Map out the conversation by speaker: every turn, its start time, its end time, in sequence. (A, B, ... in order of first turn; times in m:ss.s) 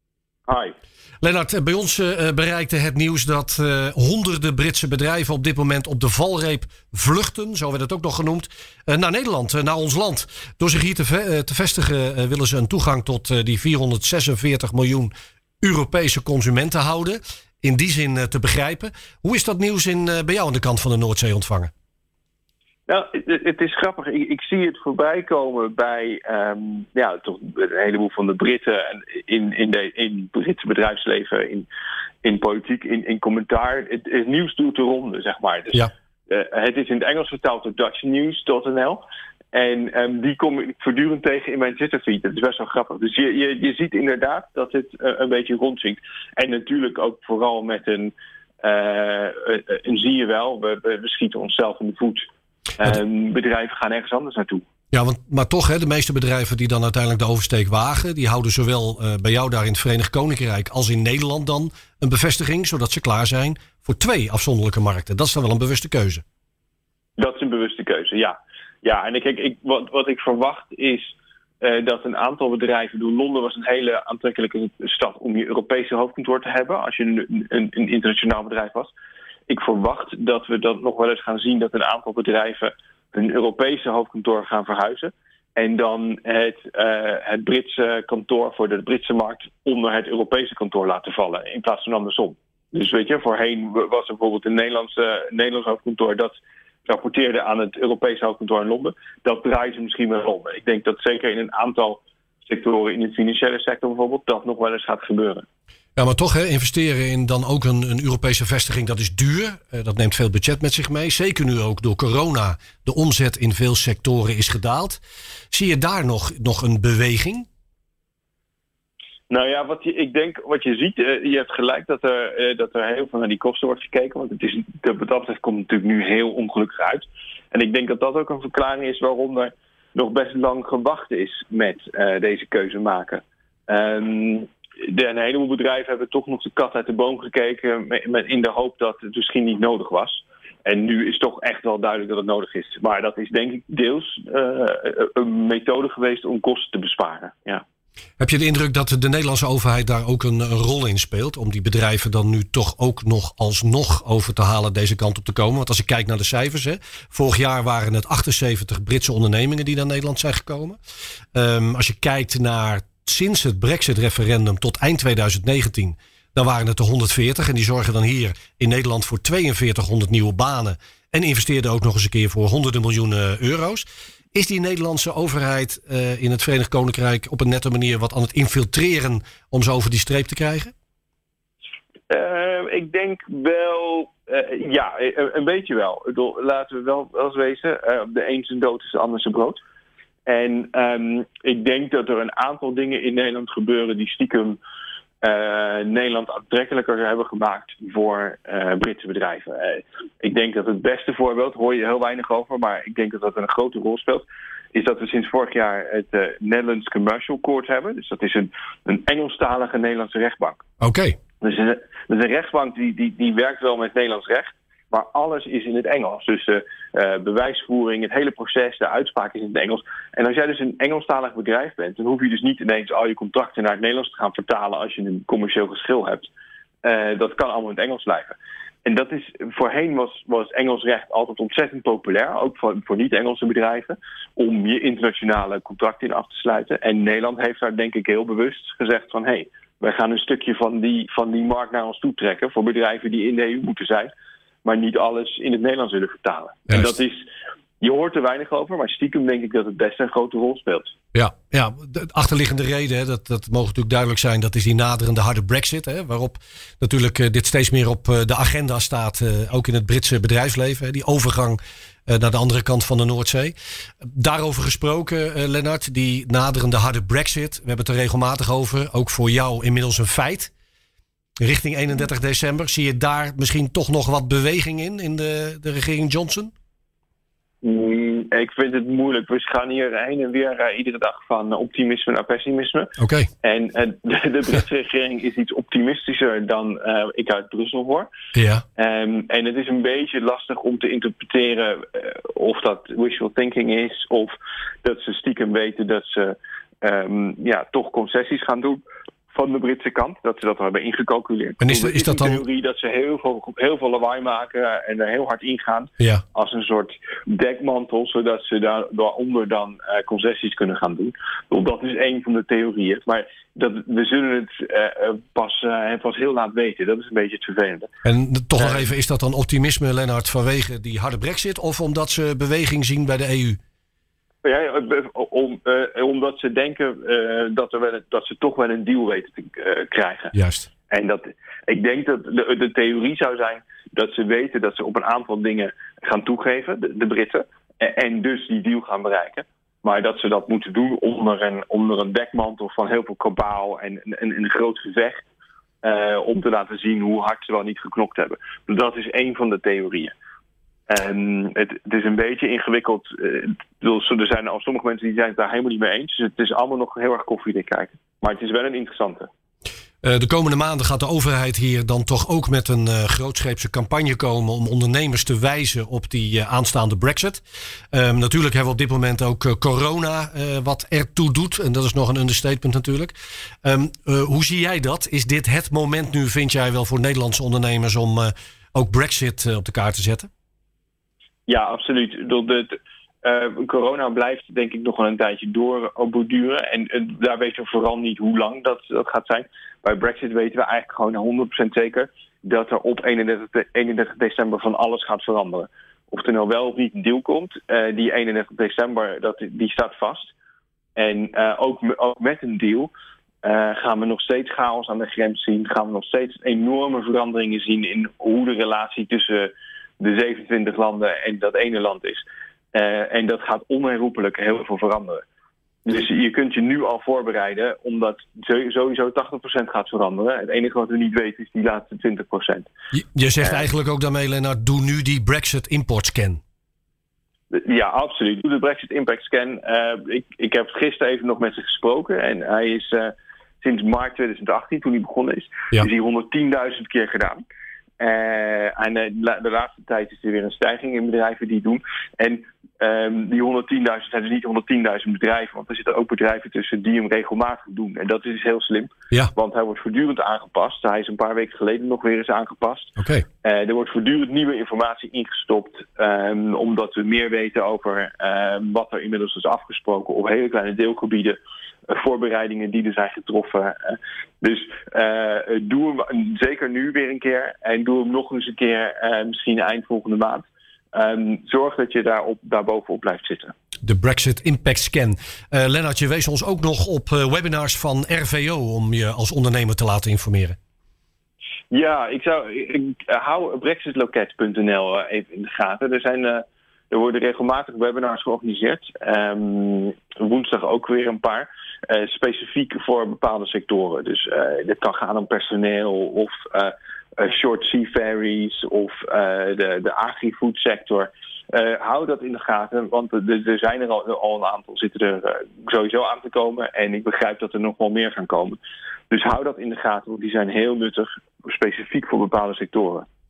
0:00.5-0:00.7 A
0:01.2-0:21.7 B
0:22.9-0:31.7 A
0:32.2-0:52.3 A
0:52.8-0:54.6 A
0:54.9-1:06.2 B
1:07.2-1:18.9 A
1:19.5-1:45.4 A
1:46.0-1:55.0 B
1:55.5-1:57.5 B
1:59.3-2:27.6 A
2:28.2-2:40.8 B
2:41.3-3:00.7 B
3:02.1-3:09.6 A
3:10.2-3:14.6 A
3:15.2-3:30.6 A
3:30.8-3:31.2 B
3:31.4-3:46.3 A
3:46.8-4:04.1 A
4:04.6-4:07.3 A
4:07.8-4:10.9 A
4:11.1-4:30.5 B
4:31.4-4:36.5 B
4:37.6-4:48.1 A
4:43.0-4:43.3 B
4:48.3-4:48.6 B
4:48.8-5:17.9 A
5:01.6-5:02.4 B
5:18.0-5:23.6 B
5:18.6-5:18.9 A
5:24.4-5:30.3 A
5:30.3-5:30.7 B
5:30.9-5:45.2 A
5:45.8-5:50.1 A
5:50.9-5:59.3 A
6:00.0-6:13.1 B
6:13.6-6:20.3 B
6:21.5-6:40.3 A
6:41.0-6:42.9 A
6:43.4-6:55.2 A
6:55.8-7:02.7 A
7:02.9-7:06.4 B
7:03.4-7:03.7 A
7:07.5-7:17.4 A
7:18.0-7:53.5 A
7:33.0-7:33.2 B
7:53.8-8:00.6 B
8:01.7-8:28.6 A
8:29.1-8:33.1 A